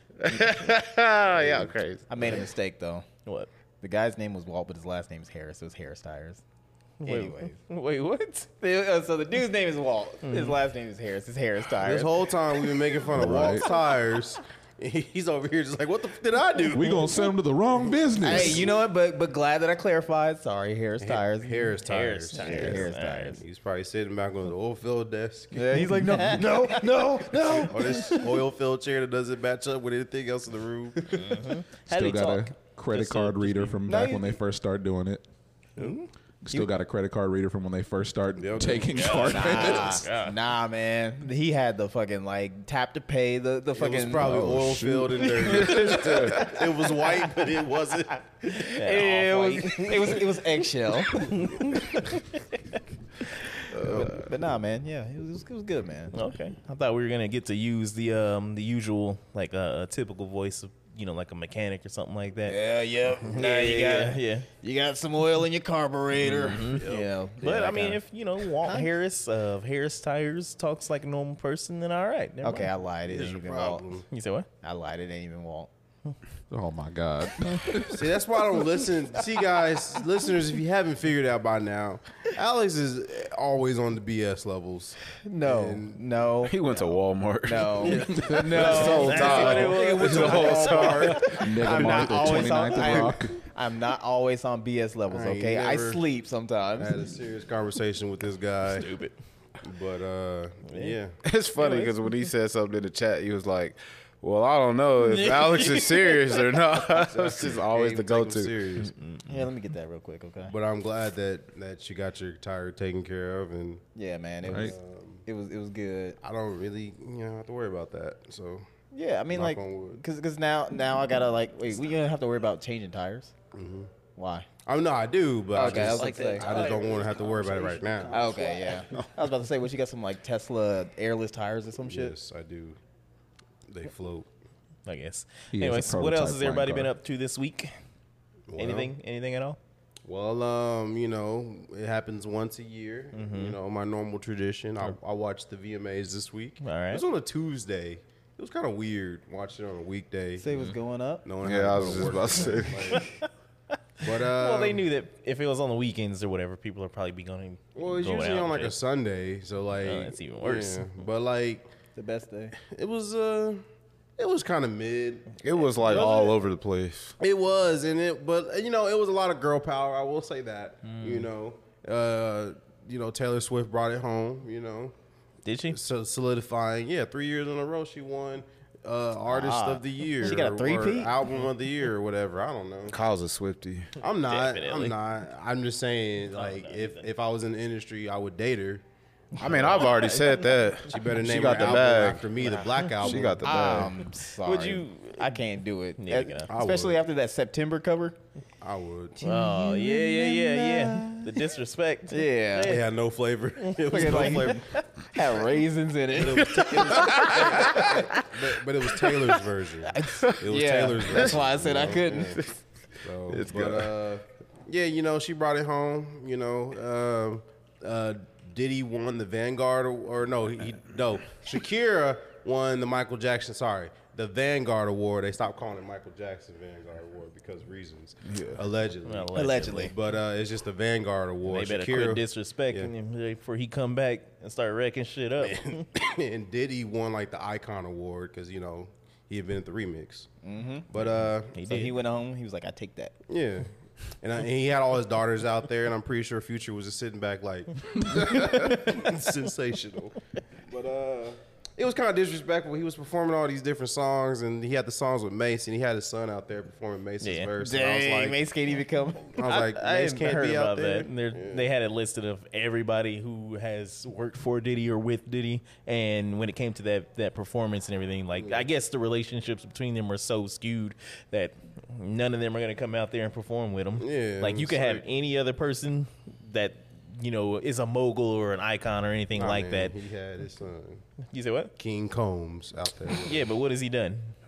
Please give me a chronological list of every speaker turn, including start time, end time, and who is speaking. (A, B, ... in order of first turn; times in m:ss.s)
0:00.2-0:02.1 A
0:02.1-0:03.0 B
0:03.8-0:06.4 B
0:07.0-0:08.5 C
0:07.0-0:07.6 B
0:08.6-0:13.0 B
0:10.2-0:10.6 C
0:11.8-0:17.1 D
0:13.1-0:13.6 E
0:16.7-0:18.6 E
0:18.2-0:21.8 B
0:21.0-0:31.1 D
0:21.8-0:23.4 C
0:22.3-0:23.4 B
0:25.5-0:28.4 B
0:31.0-0:31.6 B
0:31.1-0:33.8 C
0:31.9-0:35.2 E
0:33.8-0:34.4 B
0:35.8-0:36.1 C
0:36.4-0:40.0 E
0:38.4-0:39.6 D
0:38.9-0:40.4 C
0:39.3-0:44.5 B
0:43.7-0:48.2 D
0:44.2-0:45.1 E
0:45.2-0:47.1 B
0:45.5-0:46.5 A
0:48.4-0:52.1 B
0:48.6-0:50.2 C
0:51.1-0:52.4 C
0:53.7-0:56.1 B
0:53.8-0:54.2 A
0:56.1-1:02.6 C
1:02.4-1:08.9 B
1:03.2-1:04.5 C
1:06.2-1:06.8 C
1:06.7-1:07.1 D
1:07.4-1:12.7 C
1:12.4-1:13.8 B
1:13.1-1:14.1 D
1:14.1-1:14.5 C
1:14.6-1:15.7 B
1:16.5-1:18.1 E
1:17.8-1:26.0 D
1:25.2-1:26.6 B
1:26.4-1:31.8 A
1:27.4-1:36.9 B
1:27.8-1:31.4 D
1:28.1-1:28.6 E
1:28.5-1:30.9 C
1:31.3-1:33.4 E
1:35.1-1:36.0 D
1:36.8-1:38.9 D
1:38.7-1:39.2 C
1:39.6-1:41.2 D
1:40.7-1:41.0 C
1:41.2-1:48.9 A
1:41.6-1:41.9 C
1:46.8-1:48.9 D
1:48.8-1:49.3 C
1:49.3-1:50.5 B
1:50.5-1:53.8 D
1:53.9-1:54.7 B
1:54.4-1:55.2 D
1:55.2-1:56.2 B
1:56.2-1:58.6 D
1:58.9-2:03.3 B
1:59.3-2:00.0 D
2:03.5-2:03.9 D
2:04.2-2:04.5 B
2:04.6-2:08.3 D
2:05.5-2:06.5 B
2:05.7-2:08.7 C
2:08.1-2:12.1 B
2:11.8-2:12.8 D
2:13.7-2:14.3 D
2:14.8-2:17.8 C
2:15.5-2:16.9 E
2:18.5-2:18.9 D
2:18.6-2:19.6 C
2:20.0-2:30.5 D
2:23.1-2:23.6 C
2:26.6-2:27.0 C
2:30.4-2:31.2 B
2:31.2-2:33.1 D
2:31.4-2:33.0 A
2:32.9-2:33.2 C
2:34.0-2:34.8 D
2:34.2-2:38.7 C
2:37.7-2:41.7 D
2:39.8-2:40.9 C
2:41.9-2:42.6 B
2:42.6-2:43.6 D
2:44.2-2:45.4 D
2:45.4-2:47.1 A
2:45.8-2:46.3 C
2:47.2-2:54.9 D
2:50.8-2:51.2 C
2:55.4-2:55.8 C
2:55.7-3:03.0 D
2:59.3-3:01.2 B
3:02.9-3:03.9 A
3:04.0-3:08.8 D
3:04.2-3:05.0 C
3:06.3-3:07.0 C
3:09.4-3:12.3 A
3:09.4-3:10.3 C
3:10.9-3:13.9 D
3:13.0-3:13.9 A
3:13.4-3:18.2 B
3:14.4-3:15.3 C
3:16.0-3:16.5 C
3:16.5-3:17.0 D
3:18.6-3:19.2 D
3:19.2-3:21.5 B
3:19.2-3:22.9 C
3:22.1-3:22.8 B
3:22.6-3:24.8 D
3:23.8-3:24.5 C
3:23.9-3:28.2 B
3:26.1-3:32.4 D
3:27.0-3:27.3 A
3:29.9-3:32.4 B
3:33.0-3:52.9 D
3:33.3-3:33.9 A
3:48.2-3:48.6 A
3:49.0-3:49.9 C
3:49.3-3:49.9 B
3:51.4-3:55.9 C
3:55.4-4:00.3 D
4:00.4-4:00.9 B
4:00.9-4:01.6 D
4:01.5-4:02.0 C
4:01.6-4:03.1 B
4:03.3-4:03.7 D
4:04.2-4:18.4 D
4:17.2-4:17.5 C
4:17.6-4:19.3 B
4:19.3-4:21.7 D
4:19.4-4:39.9 C
4:28.4-4:28.6 D
4:34.0-4:35.0 D
4:39.4-4:41.0 D
4:41.3-4:41.7 C
4:41.8-4:43.5 D
4:43.2-4:44.3 C